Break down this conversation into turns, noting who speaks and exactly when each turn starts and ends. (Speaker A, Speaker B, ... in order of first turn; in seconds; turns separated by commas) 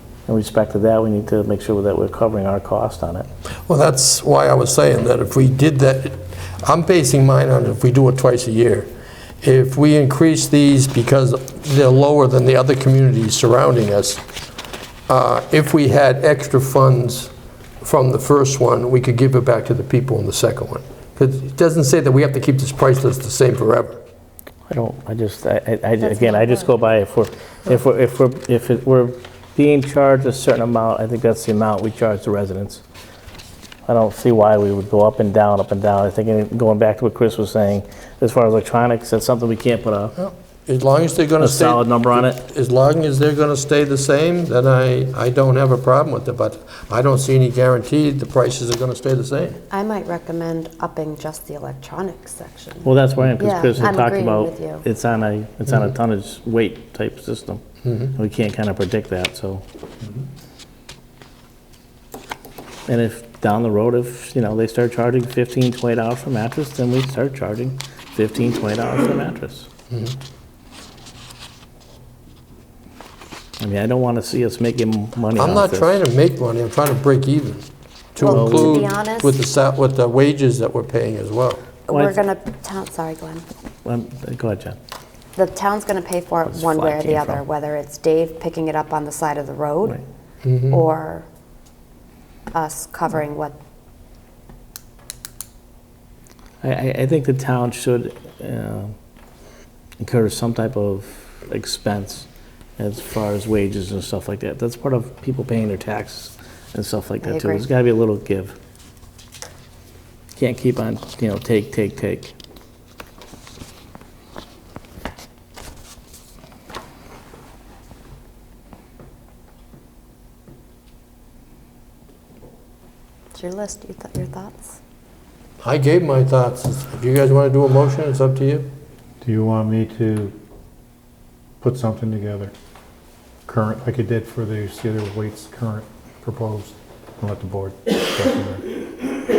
Speaker A: 0.3-3.3, Speaker B: 3.7-8.9, Speaker B: 9.4-14.2, Speaker B: 15.1-24.0, Speaker A: 24.7-32.8, Speaker C: 26.1-26.7, Speaker A: 33.9-40.1, Speaker B: 40.2-49.6, Speaker A: 41.4-42.4, Speaker C: 49.7-54.9, Speaker A: 52.9-59.6, Speaker B: 57.9-58.1, Speaker A: 62.9-69.7, Speaker B: 69.9-70.2, Speaker A: 73.6-75.9, Speaker B: 75.4-81.7, Speaker C: 78.2-79.4, Speaker A: 78.2-78.8, Speaker C: 81.9-83.5, Speaker A: 81.9-82.2, Speaker A: 83.8-84.8, Speaker C: 85.4-90.0, Speaker A: 86.5-87.4, Speaker B: 90.4-90.8, Speaker C: 90.7-91.3, Speaker C: 92.5-93.6, Speaker A: 96.6-99.0, Speaker A: 100.0-108.6, Speaker C: 107.2-107.7, Speaker A: 110.4-112.3, Speaker C: 123.3-124.8, Speaker B: 125.6-128.7, Speaker D: 129.2-130.3, Speaker D: 131.6-132.5, Speaker D: 133.5-138.7